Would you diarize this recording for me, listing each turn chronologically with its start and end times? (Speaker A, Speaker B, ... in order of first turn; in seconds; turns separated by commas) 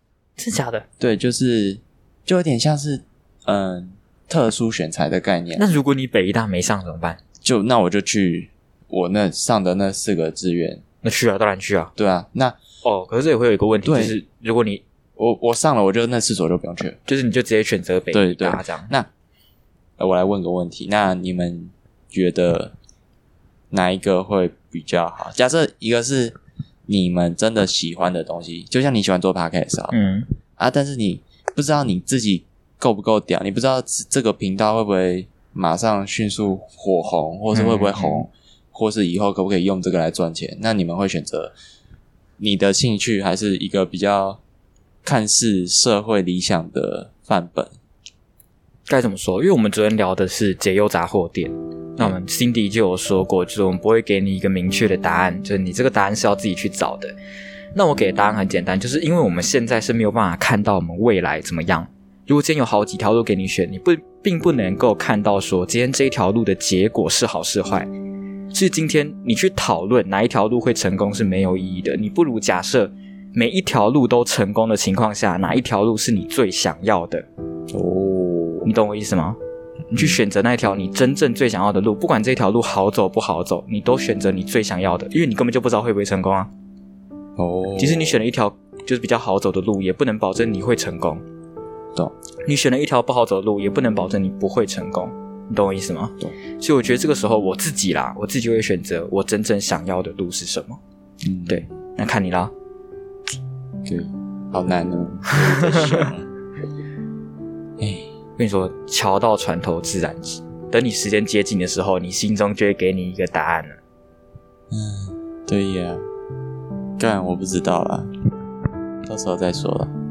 Speaker A: 0.4-0.8, Speaker B: 1.0-5.7, Speaker A: 5.5-7.2, Speaker B: 7.4-10.8, Speaker A: 11.0-11.9, Speaker B: 11.9-12.6, Speaker A: 12.8-14.8, Speaker B: 13.8-14.2, Speaker B: 15.2-17.0, Speaker A: 17.1-18.9, Speaker B: 18.1-19.1, Speaker B: 20.0-22.7, Speaker B: 23.7-29.9, Speaker A: 29.9-30.3, Speaker B: 30.6-41.5, Speaker A: 37.5-38.2, Speaker B: 42.4-44.4, Speaker B: 45.0-47.7, Speaker A: 48.9-57.1, Speaker A: 57.7-67.9, Speaker A: 68.5-77.3, Speaker B: 77.7-78.7, Speaker A: 78.6-79.4, Speaker A: 79.9-86.5, Speaker B: 87.4-88.2, Speaker A: 87.8-91.2, Speaker A: 92.4-100.8, Speaker B: 101.2-101.8, Speaker A: 101.5-102.5, Speaker B: 103.8-106.3, Speaker A: 105.4-106.1, Speaker B: 107.8-108.1, Speaker A: 108.4-113.8, Speaker B: 114.7-116.0, Speaker B: 117.0-118.1, Speaker B: 119.0-119.9